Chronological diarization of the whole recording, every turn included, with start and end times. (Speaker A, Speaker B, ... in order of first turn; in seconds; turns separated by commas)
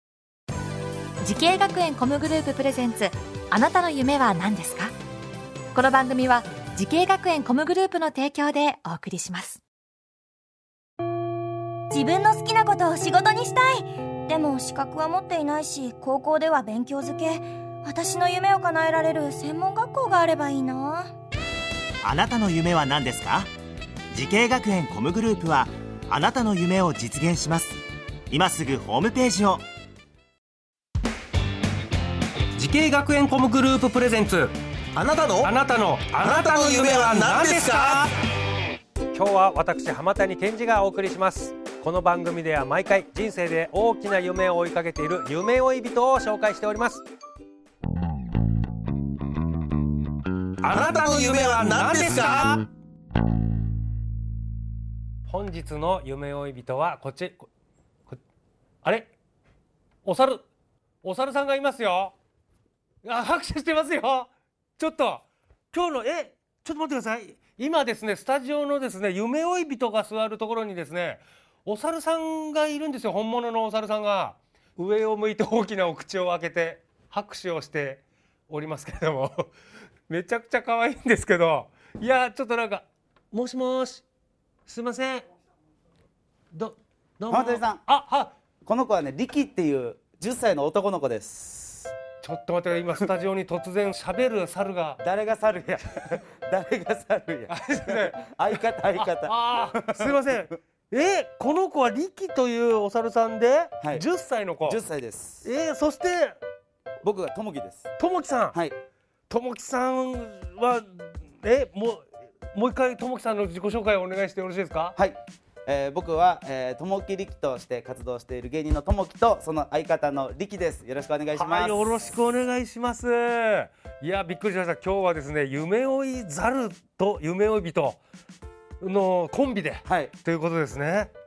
Speaker A: 1.2-4.9, Speaker A: 5.7-9.6, Speaker B: 11.9-21.1, Speaker C: 22.0-23.5, Speaker C: 24.1-27.8, Speaker C: 28.3-29.6, Speaker D: 32.5-34.5, Speaker E: 34.9-35.5, Speaker D: 35.4-38.1, Speaker E: 36.2-38.1, Speaker D: 39.1-47.0, Speaker D: 50.6-52.5, Speaker E: 50.7-52.6, Speaker D: 55.3-57.5, Speaker D: 58.8-59.1, Speaker D: 60.0-60.4, Speaker D: 61.0-62.1, Speaker D: 63.0-79.5, Speaker D: 80.1-84.0, Speaker D: 84.7-85.3, Speaker D: 86.5-88.3, Speaker F: 87.3-87.8, Speaker F: 88.6-91.9, Speaker D: 92.2-95.0, Speaker F: 95.0-100.3, Speaker D: 97.5-98.2, Speaker D: 98.9-104.8, Speaker F: 103.8-104.0, Speaker F: 104.6-105.5, Speaker D: 105.4-106.4, Speaker F: 107.0-107.9, Speaker D: 108.0-108.6, Speaker D: 109.3-115.0, Speaker F: 115.0-122.1, Speaker D: 121.3-128.0, Speaker D: 128.8-131.1, Speaker F: 129.8-130.1